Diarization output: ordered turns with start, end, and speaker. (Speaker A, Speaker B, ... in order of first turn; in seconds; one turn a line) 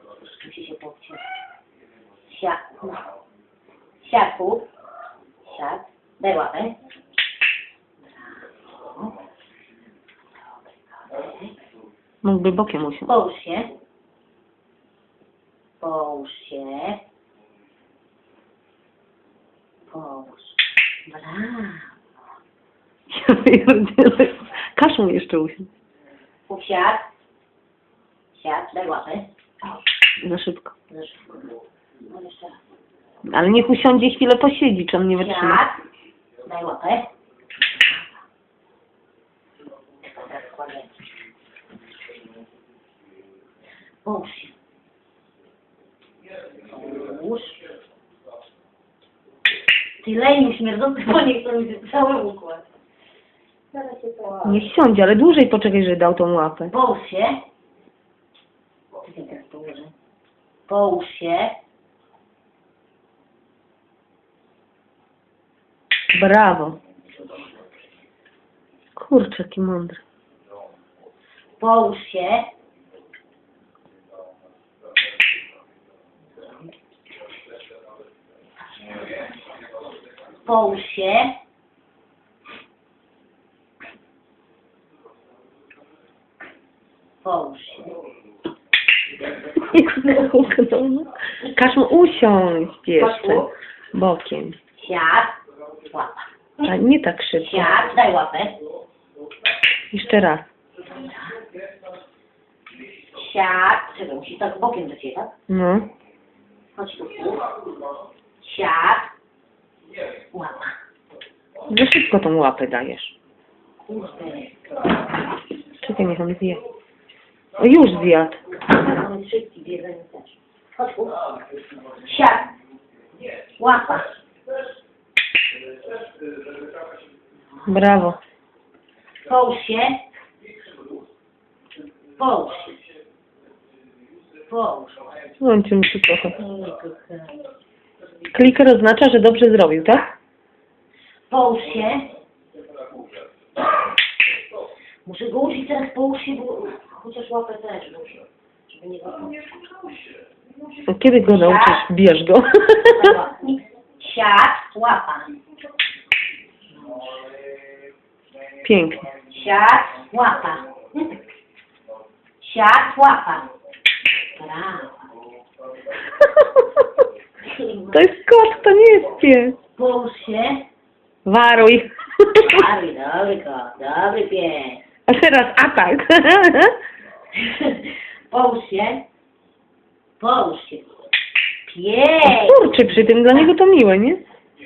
Speaker A: 0.1-1.3
Speaker A: 2.3-3.0
Speaker A: 4.0-4.7
Speaker A: 5.4-6.8
Speaker A: 8.1-9.1
Speaker A: 11.0-11.5
Speaker B: 12.2-13.1
Speaker A: 13.1-13.7
Speaker A: 15.8-17.0
Speaker A: 19.9-21.9
Speaker B: 23.1-25.7
Speaker A: 26.5-27.1
Speaker A: 28.3-29.3
Speaker B: 30.2-30.7
Speaker A: 30.9-31.4
Speaker A: 32.0-32.6
Speaker B: 33.2-35.6
Speaker A: 35.1-35.8
Speaker A: 36.4-37.1
Speaker A: 37.8-38.0
Speaker A: 40.1-40.9
Speaker A: 44.0-44.5
Speaker A: 46.6-47.6
Speaker A: 50.0-52.6
Speaker A: 53.7-54.7
Speaker B: 54.4-56.7
Speaker A: 56.7-57.4
Speaker A: 59.0-59.9
Speaker A: 60.7-61.5
Speaker B: 66.1-66.8
Speaker B: 69.0-70.0
Speaker A: 71.6-72.5
Speaker A: 80.4-81.3
Speaker A: 87.2-88.0
Speaker B: 89.5-94.6
Speaker A: 93.0-93.5
Speaker A: 94.7-96.7
Speaker B: 96.6-97.9
Speaker A: 97.4-98.6
Speaker B: 99.9-100.5
Speaker A: 100.9-101.4
Speaker A: 103.1-105.3
Speaker B: 105.5-105.9
Speaker A: 106.8-107.5
Speaker A: 108.4-109.1
Speaker A: 110.3-110.7
Speaker B: 111.7-113.1
Speaker A: 113.9-114.8
Speaker B: 115.8-116.6
Speaker B: 117.6-118.4
Speaker A: 118.7-121.2
Speaker A: 121.9-122.5
Speaker A: 123.6-124.1
Speaker B: 127.7-128.2
Speaker A: 129.2-130.0
Speaker A: 132.2-132.7
Speaker A: 134.4-135.0
Speaker B: 135.4-136.4
Speaker A: 136.3-137.4
Speaker B: 138.3-140.1
Speaker A: 141.3-142.1
Speaker A: 145.1-149.5
Speaker B: 150.9-153.2
Speaker A: 151.2-151.8
Speaker A: 152.8-155.3
Speaker A: 156.8-157.1
Speaker B: 158.6-159.1
Speaker A: 159.3-161.1
Speaker A: 162.4-163.5
Speaker A: 164.3-165.1
Speaker A: 167.4-168.1
Speaker B: 167.9-169.6
Speaker A: 169.8-170.6
Speaker B: 171.2-172.6
Speaker A: 172.3-174.8
Speaker B: 175.1-176.8
Speaker A: 177.3-179.0
Speaker A: 180.2-180.9
Speaker A: 181.6-183.5
Speaker B: 182.2-184.2